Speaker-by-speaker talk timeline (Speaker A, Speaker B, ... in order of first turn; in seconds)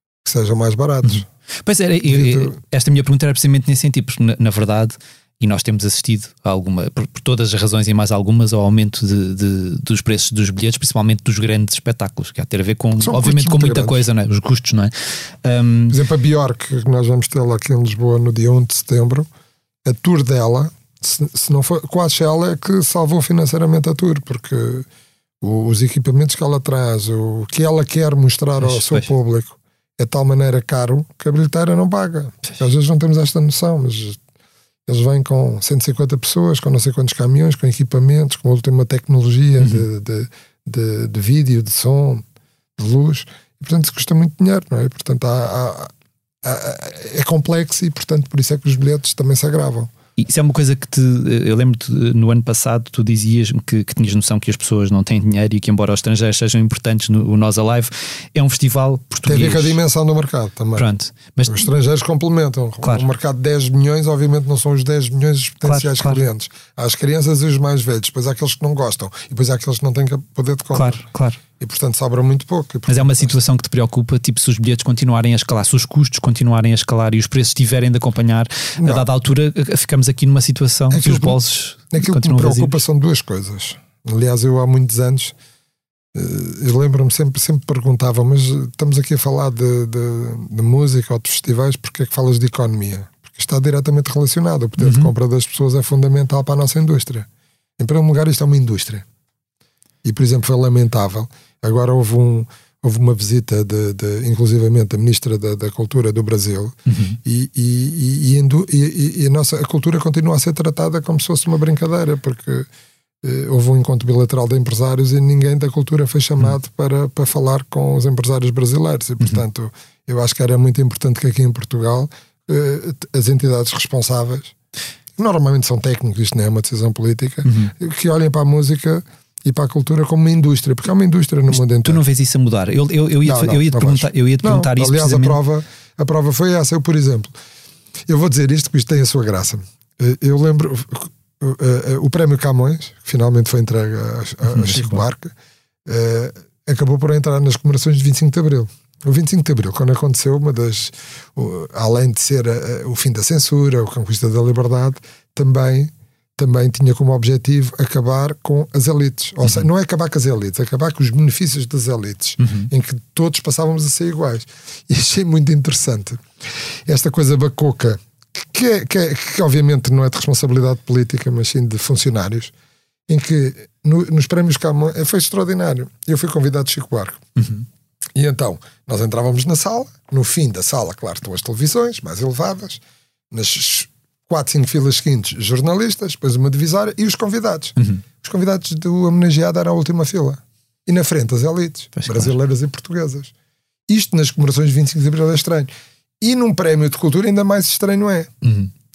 Speaker A: 0.2-1.3, 2.0-2.5, 13.0-14.0, 15.9-19.3, 19.8-24.9, 25.4-34.2, 34.9-42.2, 42.8-45.9, 46.4-49.9, 59.2-60.9, 61.5-71.0, 71.6-73.3, 78.8-79.0, 80.9-85.3, 86.1-97.3, 97.8-99.0, 100.0-112.7, 113.2-124.5, 125.2-132.0, 133.2-137.3, 138.1-145.3, 145.9-166.2, 166.9-172.5, 173.1-177.2, 178.1-193.3, 193.9-198.3
Speaker B: 1.0-16.0, 28.6-29.1, 39.6-39.8, 50.2-59.8, 60.8-61.6, 62.8-63.1, 65.6-66.2, 70.8-71.4, 72.9-82.8, 94.8-95.1, 106.9-107.2, 127.4-127.7, 131.5-135.4, 144.5-145.0, 162.4-162.7, 177.4-177.7, 187.8-188.0, 192.0-192.3, 198.4-198.7